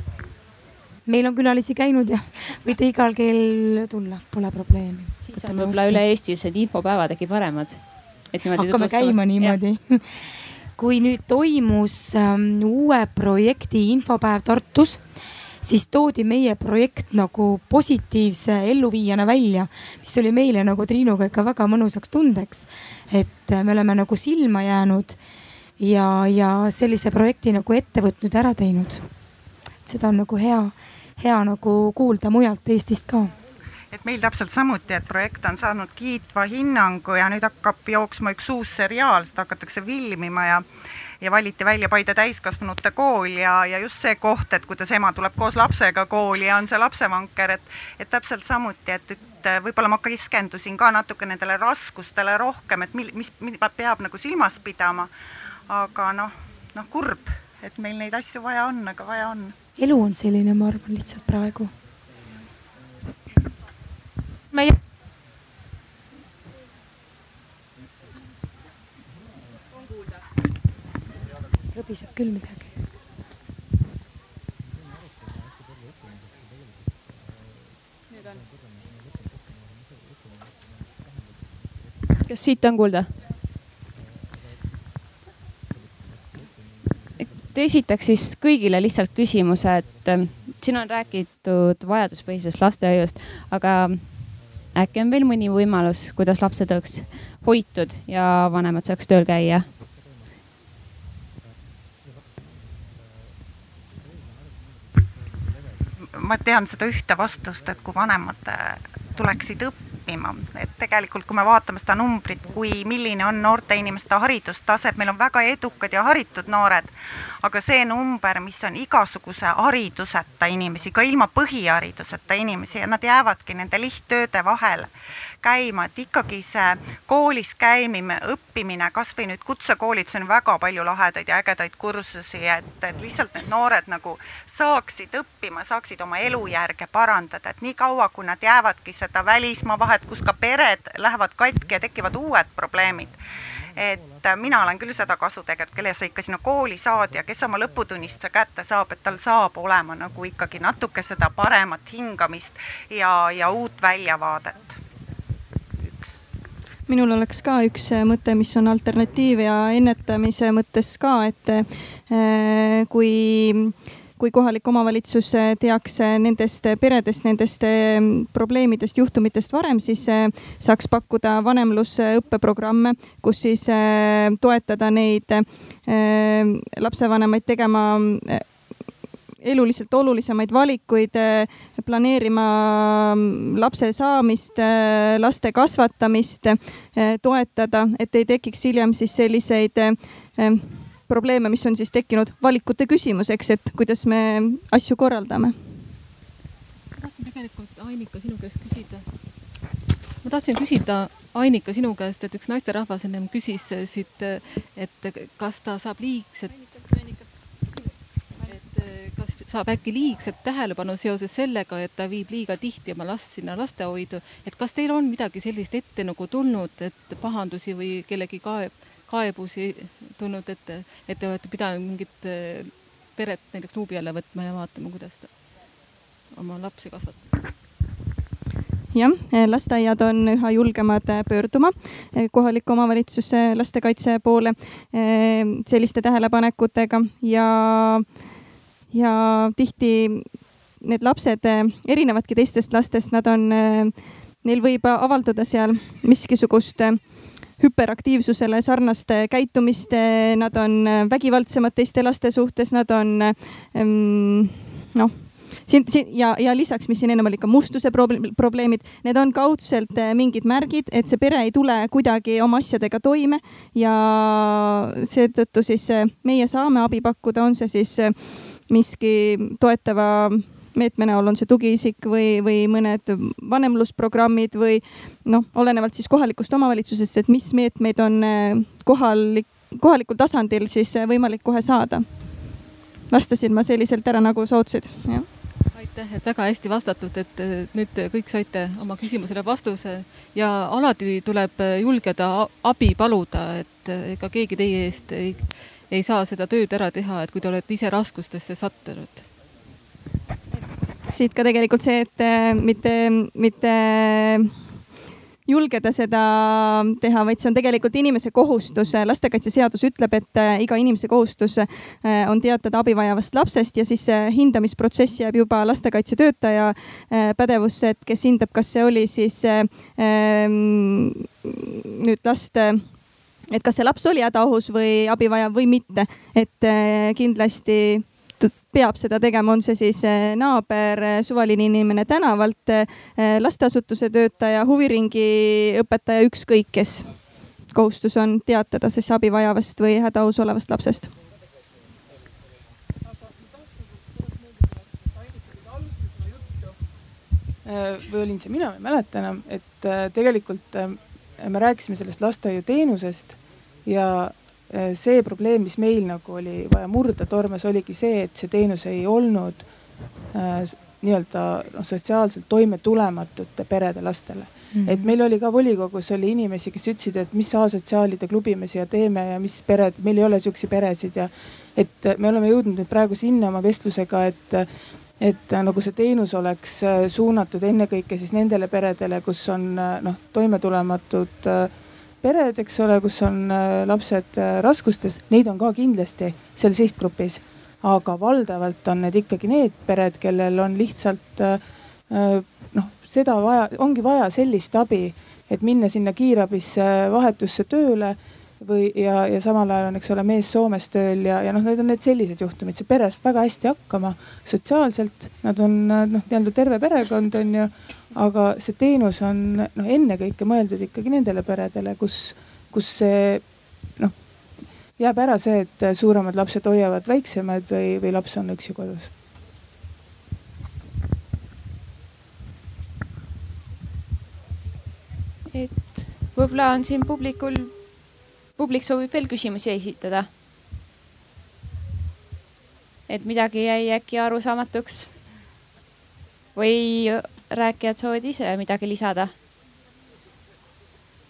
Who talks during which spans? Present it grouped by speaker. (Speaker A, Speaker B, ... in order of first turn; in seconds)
Speaker A: 1.1-6.0, 8.5-15.0, 15.6-25.2, 25.8-29.1, 29.9-33.3, 59.8-61.7, 71.7-72.7, 364.7-365.1
Speaker B: 5.2-9.6, 82.2-83.2, 87.2-99.7, 425.5-430.3, 433.1-435.2, 436.6-439.4
Speaker C: 33.9-40.6, 41.2-55.1, 55.7-59.5, 106.1-124.9, 125.4-143.2, 143.8-154.7, 155.8-156.2
Speaker D: 156.9-195.6, 228.9-285.3, 301.1-304.6, 305.5-341.1
Speaker E: 197.0-199.0, 200.2-206.7, 208.4-225.3, 226.3-227.4, 285.7-299.3
Speaker F: 347.6-359.7, 360.3-374.7, 375.2-419.1